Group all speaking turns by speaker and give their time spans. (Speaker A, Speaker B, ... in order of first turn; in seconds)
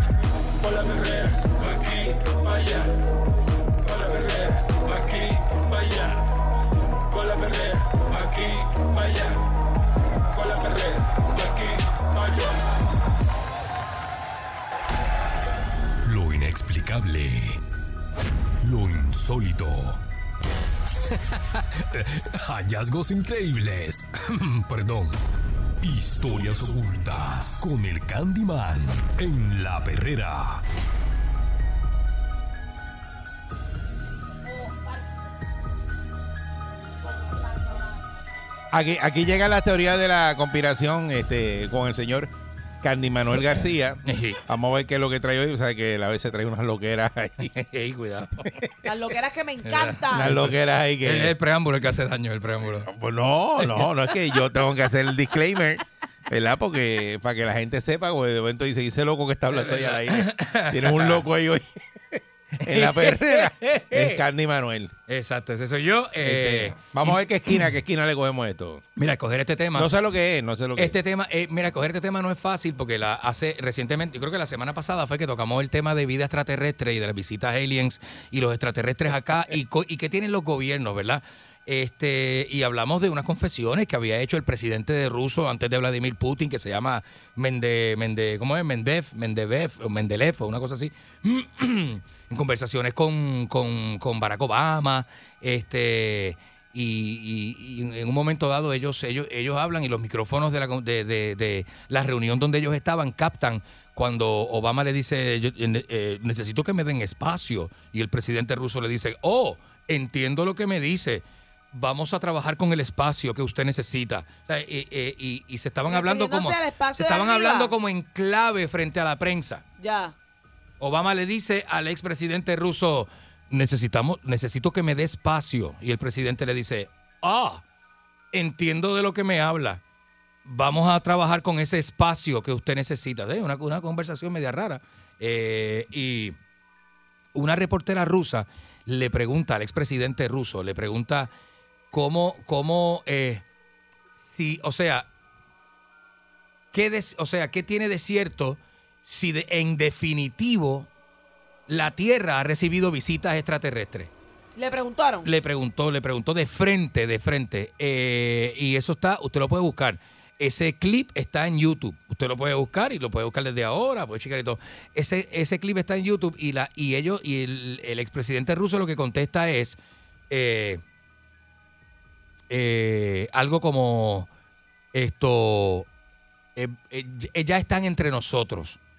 Speaker A: 0.6-2.9, 3.8-6.2, 7.1-9.4, 10.3-12.6
Speaker B: 16.1-17.6, 18.6-20.0, 21.0-25.2, 25.8-30.6
Speaker C: 37.5-37.9, 48.9-50.3, 115.9-117.7, 119.8-120.2, 154.6-155.3
Speaker D: 38.7-42.3, 42.8-47.5, 50.1-51.3, 52.9-64.9, 66.2-68.8, 69.8-71.0
Speaker E: 44.0-44.4, 47.5-48.5, 49.6-52.9, 53.6-53.9, 59.5-61.2, 62.6-64.2, 65.1-67.7, 69.0-69.9, 70.8-119.6, 120.8-127.6, 128.3-129.8, 130.4-136.3, 137.3-141.3, 141.9-143.4, 144.2-145.1, 146.7-150.9, 151.7-154.1, 155.2-169.8, 170.3-170.8, 172.5-174.3, 174.9-175.9, 176.6-178.8